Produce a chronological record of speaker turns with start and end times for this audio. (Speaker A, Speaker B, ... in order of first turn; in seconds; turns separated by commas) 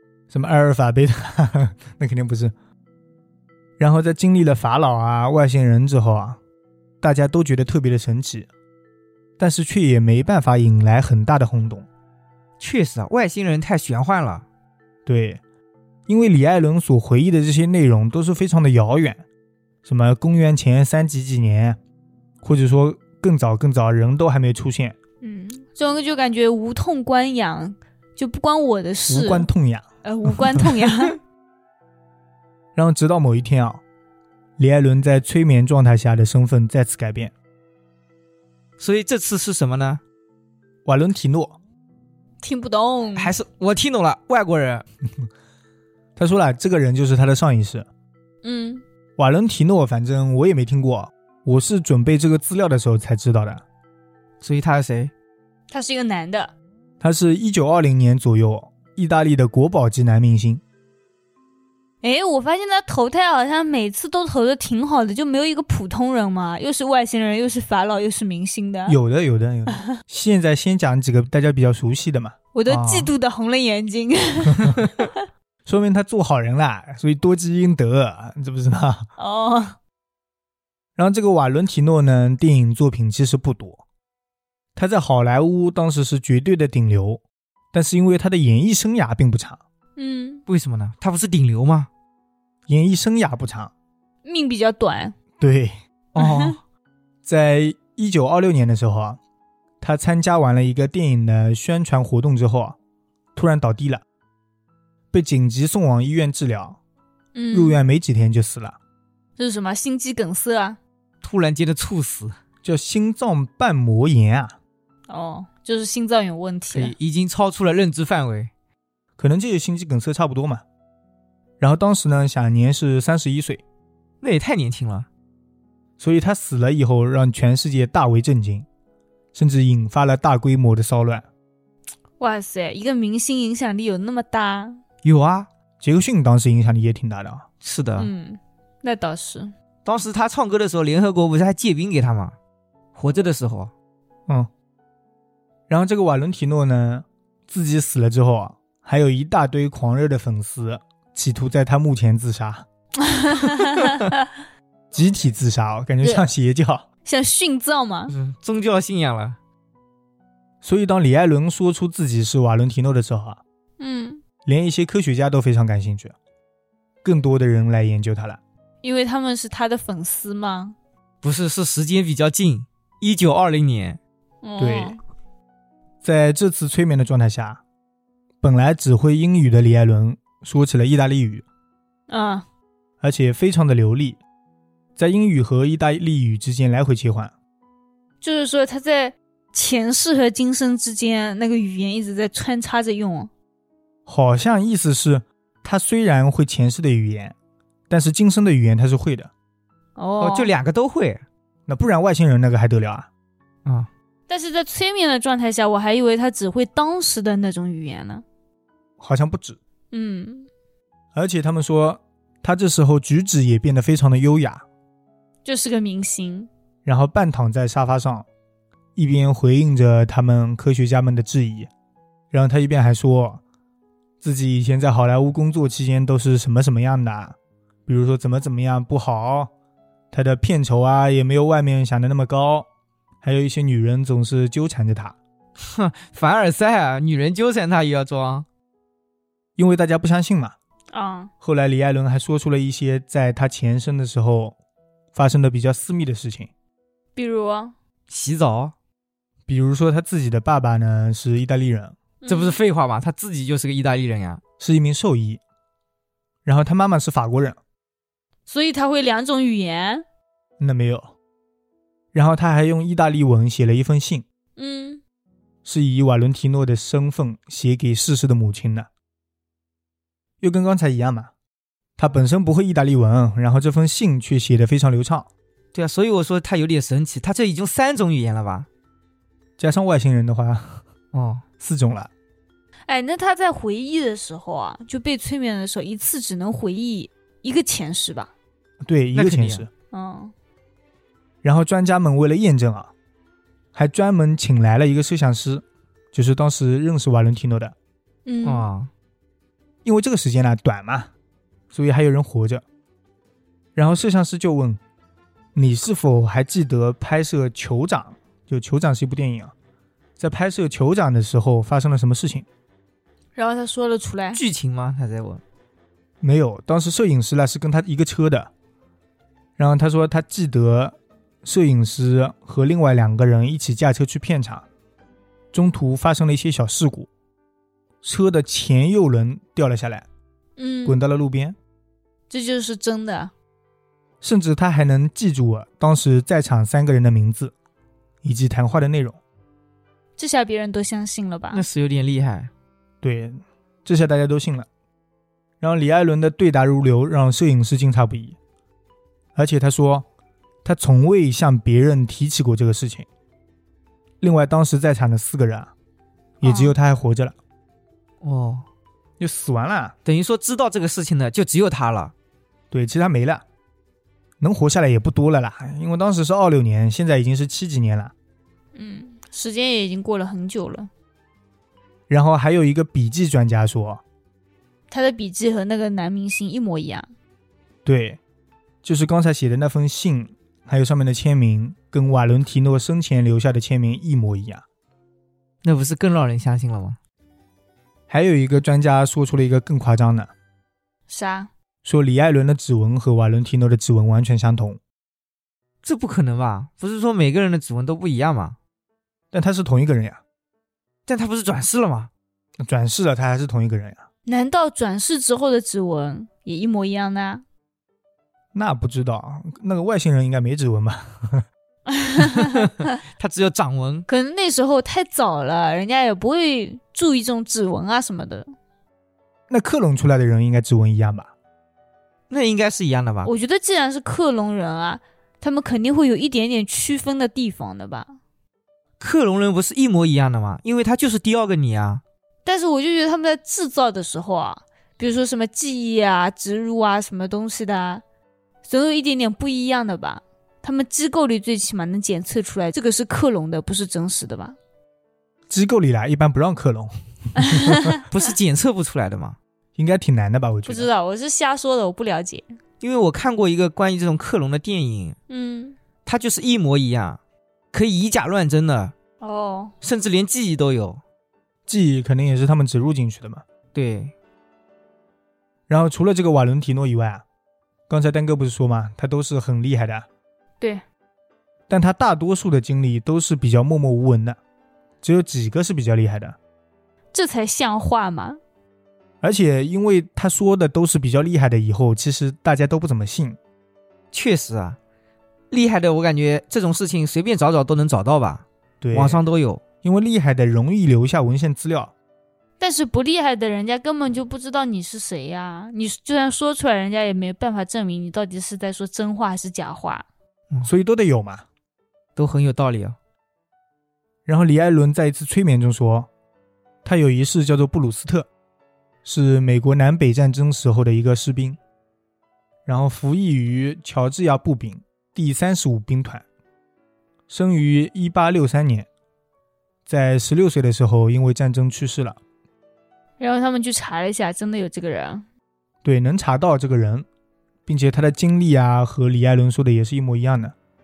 Speaker A: 0.3-2.5, Speaker A: 3.8-6.4, Speaker A: 7.0-8.5, Speaker A: 9.4-11.9, Speaker B: 12.6-14.4, Speaker A: 15.1-15.4, Speaker A: 16.1-19.2, Speaker A: 19.8-21.8, Speaker A: 22.4-25.0, Speaker C: 25.2-29.5, Speaker A: 29.1-29.9, Speaker C: 30.0-31.2, Speaker A: 32.8-33.8, Speaker A: 34.6-37.3, Speaker B: 38.8-40.0, Speaker A: 40.9-41.6, Speaker C: 42.4-43.4, Speaker B: 43.2-44.8, Speaker A: 46.2-47.9, Speaker C: 48.4-48.8, Speaker A: 49.2-53.6, Speaker B: 54.4-55.1, Speaker C: 55.7-56.5, Speaker A: 57.0-60.6, Speaker C: 62.0-69.0, Speaker A: 68.9-72.3, Speaker C: 72.5-75.2, Speaker B: 72.7-73.1, Speaker A: 75.7-79.1, Speaker C: 79.2-79.8, Speaker A: 81.0-83.8, Speaker A: 84.8-87.2, Speaker A: 87.7-89.6, Speaker C: 90.0-90.4, Speaker B: 90.5-91.9, Speaker A: 92.7-93.7, Speaker C: 94.2-95.2, Speaker A: 95.4-95.8, Speaker B: 96.1-96.6, Speaker C: 96.2-96.6, Speaker A: 97.2-99.2, Speaker A: 99.8-102.8, Speaker A: 103.3-104.0, Speaker A: 105.1-106.8, Speaker C: 107.3-107.8, Speaker A: 107.5-108.8, Speaker C: 109.4-110.8, Speaker B: 111.2-112.4, Speaker A: 112.6-114.5, Speaker C: 115.1-117.0, Speaker B: 116.7-118.5, Speaker A: 119.2-120.6, Speaker A: 121.6-123.6, Speaker B: 124.2-125.1, Speaker A: 126.0-128.7, Speaker A: 129.3-131.2, Speaker C: 132.2-134.8, Speaker B: 135.0-135.5, Speaker A: 135.8-137.5, Speaker B: 137.6-138.1, Speaker C: 138.0-139.5, Speaker B: 139.8-142.4, Speaker B: 142.9-143.7, Speaker A: 145.7-152.7, Speaker C: 153.0-154.3, Speaker A: 154.9-156.8, Speaker C: 157.1-158.1, Speaker B: 158.1-159.4, Speaker A: 160.6-163.4, Speaker C: 163.8-164.2, Speaker A: 164.5-166.2, Speaker A: 167.0-168.4, Speaker C: 168.8-170.8, Speaker B: 171.2-174.0, Speaker C: 174.4-175.0, Speaker A: 174.6-175.0, Speaker A: 176.0-177.6, Speaker A: 178.4-181.4, Speaker C: 182.1-182.5, Speaker A: 183.0-184.2, Speaker A: 185.0-187.3, Speaker C: 188.2-193.3, Speaker A: 194.1-197.3, Speaker A: 197.9-199.3, Speaker C: 200.0-200.5, Speaker B: 200.2-201.2, Speaker A: 201.7-203.1, Speaker C: 204.3-208.2, Speaker A: 209.0-209.6, Speaker C: 209.9-210.5, Speaker A: 211.1-214.7, Speaker C: 215.4-216.5, Speaker A: 216.8-218.3, Speaker A: 219.0-221.7, Speaker A: 222.3-223.4, Speaker A: 224.2-229.5, Speaker A: 230.1-232.7, Speaker A: 233.2-235.2, Speaker B: 235.6-238.5, Speaker A: 239.6-240.6, Speaker C: 240.9-241.3, Speaker A: 241.4-244.6, Speaker A: 245.2-246.5, Speaker C: 247.2-247.7, Speaker B: 248.1-248.7, Speaker A: 249.5-252.0, Speaker C: 252.2-252.6, Speaker B: 252.3-254.4, Speaker A: 254.6-255.4, Speaker A: 256.4-257.6, Speaker C: 258.5-260.0, Speaker A: 260.6-261.1, Speaker A: 262.1-264.2, Speaker C: 264.6-265.0, Speaker A: 265.6-268.9, Speaker A: 270.4-271.3, Speaker A: 272.0-275.3, Speaker B: 275.7-278.7, Speaker A: 279.6-280.8, Speaker B: 281.1-281.4, Speaker A: 281.6-282.1, Speaker C: 282.9-288.3, Speaker A: 288.9-289.7, Speaker B: 289.1-289.7, Speaker C: 289.9-290.3, Speaker A: 291.4-292.9, Speaker A: 293.7-297.8, Speaker C: 298.3-298.7, Speaker B: 298.4-298.9, Speaker A: 299.8-301.1, Speaker A: 301.7-302.6, Speaker A: 303.8-304.8, Speaker A: 305.6-309.5, Speaker A: 310.2-312.5, Speaker C: 313.4-314.4, Speaker B: 314.3-315.4, Speaker A: 316.2-318.5, Speaker A: 319.6-324.7, Speaker A: 325.5-327.1, Speaker A: 328.0-330.1, Speaker C: 330.6-331.0, Speaker A: 330.9-331.6, Speaker C: 332.3-333.3, Speaker A: 334.2-337.5, Speaker A: 338.2-339.2, Speaker C: 340.2-341.6, Speaker B: 341.5-342.5, Speaker A: 343.0-344.7, Speaker A: 345.6-348.4, Speaker A: 349.4-350.1, Speaker A: 350.6-353.1, Speaker A: 354.2-355.7, Speaker A: 356.4-357.4, Speaker C: 356.4-356.8, Speaker B: 358.2-358.7, Speaker A: 359.2-359.9, Speaker B: 360.1-362.1, Speaker A: 362.7-363.4, Speaker A: 364.4-368.1, Speaker C: 368.8-370.9, Speaker A: 372.1-374.0, Speaker C: 374.9-377.1, Speaker A: 377.9-378.2, Speaker A: 378.8-384.6, Speaker B: 385.6-387.0, Speaker A: 388.1-390.3, Speaker C: 391.1-391.5, Speaker A: 391.8-394.8, Speaker B: 395.8-398.6, Speaker A: 399.3-400.2, Speaker B: 401.1-402.1, Speaker A: 402.6-404.1, Speaker C: 404.3-407.4, Speaker A: 408.5-411.5, Speaker C: 411.9-412.7, Speaker B: 412.6-414.1, Speaker C: 414.1-418.5, Speaker A: 419.5-421.3, Speaker B: 422.3-423.3, Speaker C: 423.2-428.1, Speaker B: 429.0-432.0, Speaker C: 432.4-438.0, Speaker C: 438.7-444.6, Speaker A: 445.5-447.9, Speaker C: 447.4-448.0, Speaker B: 448.1-449.4, Speaker A: 449.8-450.9, Speaker C: 450.7-452.5, Speaker B: 452.8-455.2, Speaker C: 455.3-455.8, Speaker B: 456.1-457.2, Speaker B: 457.7-458.9, Speaker C: 459.2-459.7, Speaker B: 459.8-461.0, Speaker A: 461.7-463.4, Speaker B: 463.7-464.1, Speaker A: 465.7-467.2, Speaker A: 467.9-470.1, Speaker A: 471.7-474.4, Speaker A: 475.0-476.4, Speaker C: 477.1-478.4, Speaker A: 479.2-483.4, Speaker B: 484.1-484.8, Speaker B: 485.5-489.6, Speaker A: 488.8-489.2, Speaker A: 489.8-491.9, Speaker C: 492.6-500.1, Speaker A: 500.6-501.4, Speaker B: 502.2-503.0, Speaker A: 504.3-506.1, Speaker A: 506.8-508.3, Speaker A: 509.0-511.6, Speaker A: 512.7-516.2, Speaker A: 517.3-518.9, Speaker A: 519.9-522.2, Speaker C: 523.2-525.3, Speaker A: 525.8-527.1, Speaker A: 527.7-530.5